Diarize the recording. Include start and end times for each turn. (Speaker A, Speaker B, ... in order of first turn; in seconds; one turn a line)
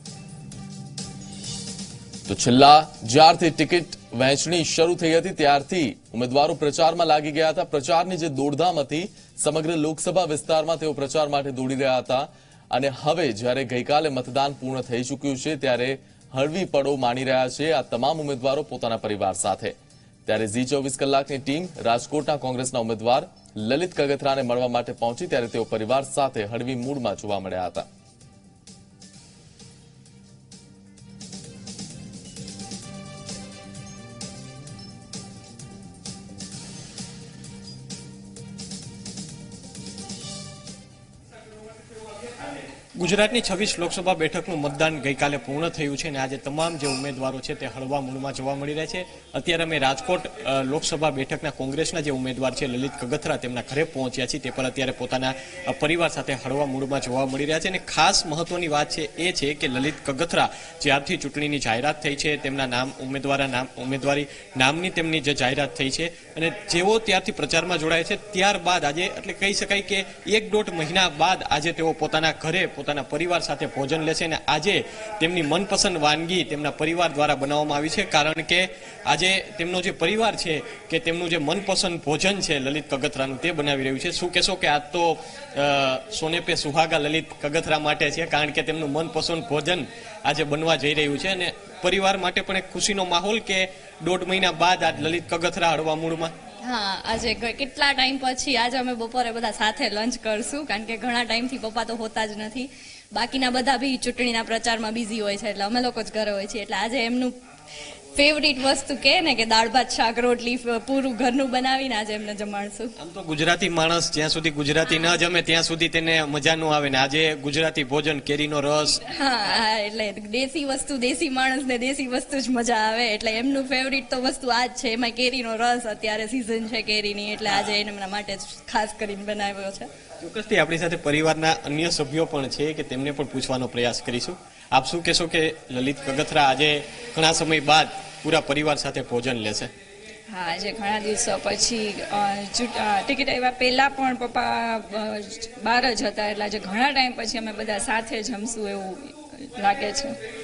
Speaker A: 2.3-19.7
Speaker A: 20.2-27.9
Speaker B: 43.0-96.3
Speaker C: 96.6-107.3
Speaker C: 108.1-112.9
Speaker B: 113.0-119.0
Speaker C: 119.0-129.9
Speaker B: 130.2-139.7
Speaker D: 140.3-150.2